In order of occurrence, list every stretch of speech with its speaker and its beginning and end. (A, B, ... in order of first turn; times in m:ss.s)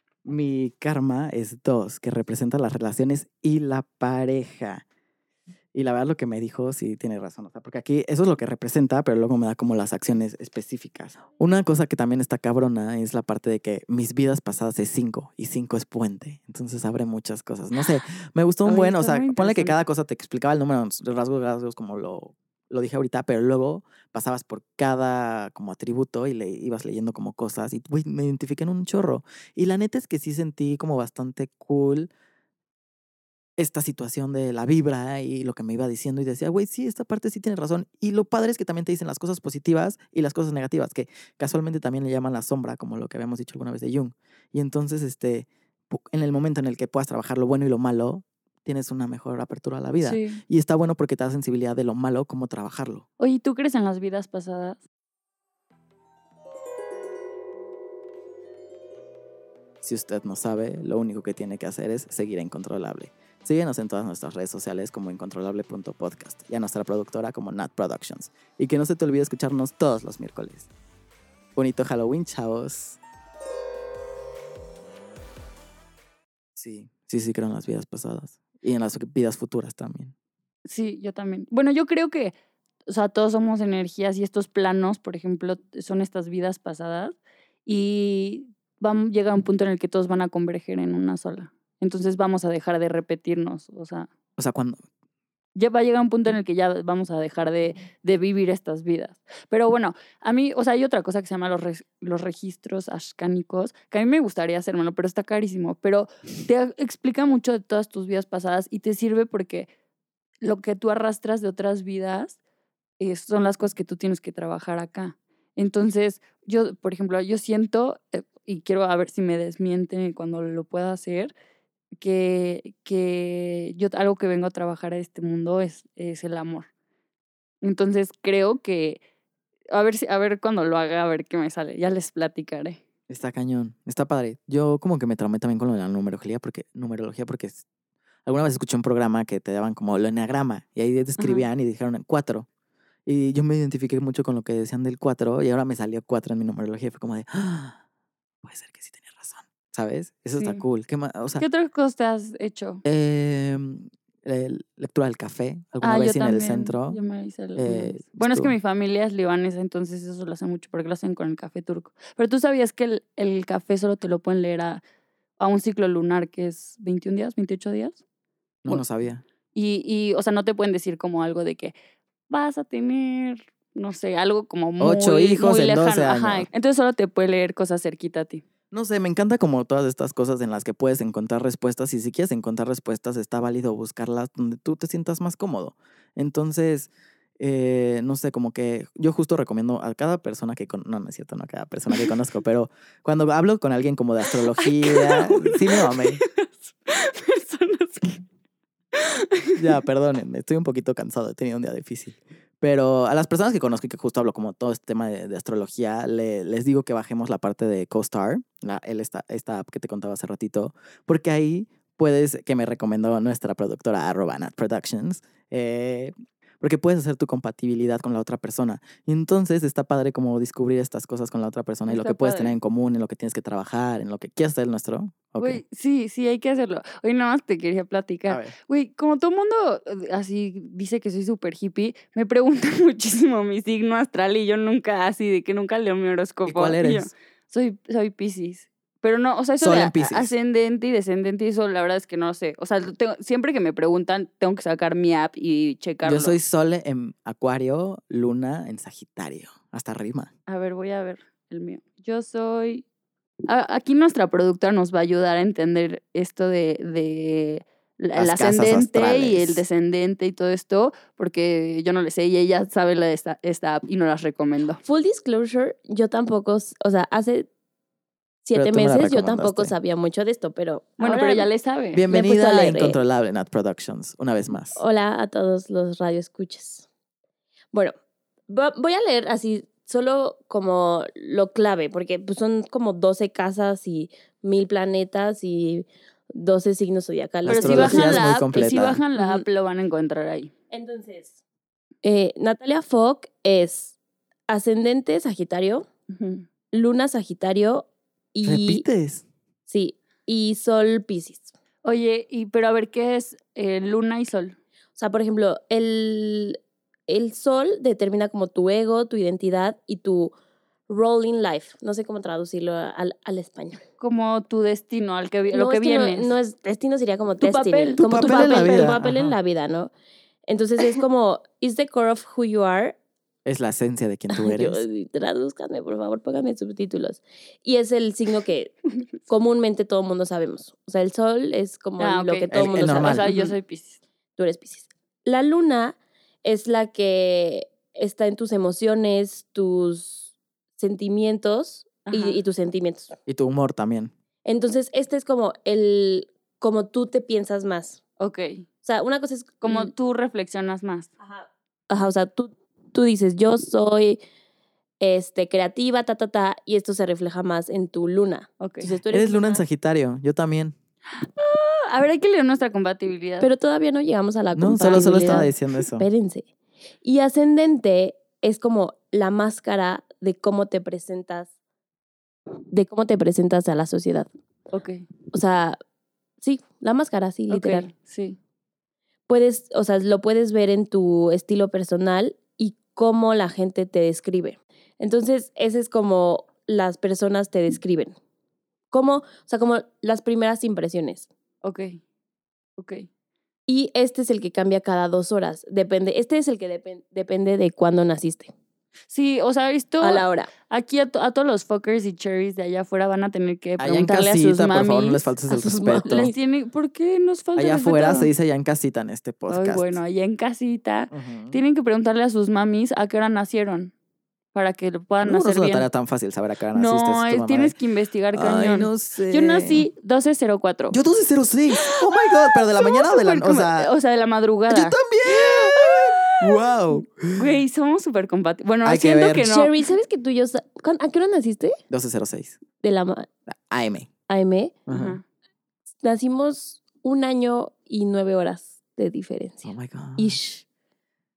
0:00.2-0:04.8 A
0:05.7-0:32.1 A
0:18.7-0:19.8 B
0:33.6-0:53.0 A
0:50.0-0:50.4 B
0:53.2-0:54.8 B
0:59.8-1:10.7 A
1:11.6-1:13.0 A
1:16.6-1:20.1 A
1:20.7-1:22.3 B
1:22.9-1:34.1 B
1:34.4-1:34.8 A
1:35.6-1:49.7 B
1:50.4-1:52.4 B
1:53.0-2:01.3 B
2:02.0-2:06.7 B
2:07.6-2:09.0 B
2:09.7-2:12.8 B
2:13.1-2:17.6 A
2:18.3-2:22.5 A
2:21.2-2:21.4 B
2:23.1-2:27.8 A
2:28.4-2:31.4 A
2:30.4-2:30.6 B
2:31.4-2:32.8 B
2:32.8-2:37.0 A
2:35.8-2:44.8 B
2:37.6-2:38.5 A
2:45.4-2:48.0 B
2:48.6-2:49.2 A
2:49.5-2:51.7 B
2:52.3-2:58.4 B
2:54.8-2:56.5 A
2:58.7-3:16.2 A
3:14.6-3:18.2 B
3:18.9-3:19.6 B
3:19.6-3:45.6 A
3:41.9-3:42.6 B
3:45.4-4:06.4 B
3:48.3-3:48.6 A
3:56.5-3:57.1 A
3:59.6-4:00.3 A
4:06.0-4:10.3 A
4:10.5-4:12.8 B
4:13.5-4:24.8 B
4:18.2-4:19.6 A
4:24.8-4:27.5 C
4:28.4-4:31.5 C
4:28.5-4:29.7 A
4:31.0-4:32.0 B
4:31.9-4:34.8 A
4:32.1-4:33.0 C
4:34.8-4:36.9 C
4:38.5-4:48.3 C
4:47.4-4:49.0 A
4:47.5-4:50.5 B
4:49.2-4:49.4 C
4:50.7-4:51.4 C
4:52.0-4:54.0 C
4:54.5-4:55.9 C
4:56.1-4:56.5 B
4:56.7-4:58.8 C
4:58.4-4:59.2 A
4:59.7-5:01.5 C
5:01.8-5:04.6 B
5:05.0-5:10.3 C
5:10.9-5:13.8 C
5:14.0-5:16.4 B
5:15.5-5:19.9 C
5:17.4-5:18.7 B
5:18.0-5:19.4 A
5:20.5-5:23.0 C
5:23.4-5:24.8 A
5:24.3-5:33.6 C
5:32.0-5:34.0 B
5:32.5-5:33.3 A
5:34.4-5:43.2 C
5:42.1-5:42.4 B
5:43.3-5:44.1 A
5:44.4-5:48.0 C
5:48.2-5:48.6 B
5:48.8-5:49.9 C
5:49.6-5:51.1 B
5:51.2-5:54.2 C
5:55.0-5:59.4 C
5:58.6-5:59.6 B
5:59.1-6:00.8 A
6:01.2-6:03.5 B
6:03.4-6:06.5 C
6:04.6-6:06.1 A
6:07.0-6:11.5 C
6:12.7-6:14.3 C
6:14.7-6:15.1 B
6:15.3-6:15.8 C
6:16.4-6:17.9 C
6:17.5-6:18.4 B
6:19.3-6:28.2 C
6:28.9-6:31.3 C
6:31.6-6:32.0 B
6:32.8-6:33.1 B
6:33.7-6:38.5 C
6:39.1-6:45.2 B
6:40.0-6:40.5 C
6:43.8-6:46.3 A
6:45.5-6:46.3 C
6:45.9-6:48.3 B
6:47.6-6:50.0 A
6:49.5-6:53.9 B
6:51.1-6:51.6 A
6:54.5-6:55.9 B
6:55.2-6:57.7 A
6:56.8-7:01.0 B
6:58.3-6:59.9 A
7:00.9-7:03.9 A
7:01.8-7:09.7 B
7:04.7-7:07.5 A
7:08.8-7:09.5 A
7:09.5-7:11.8 C
7:11.9-7:12.6 A
7:12.8-7:13.3 C
7:13.5-7:14.1 A
7:14.3-7:14.8 C
7:14.9-7:15.2 A
7:14.9-7:15.2 B
7:16.0-7:20.6 C
7:19.6-7:20.4 A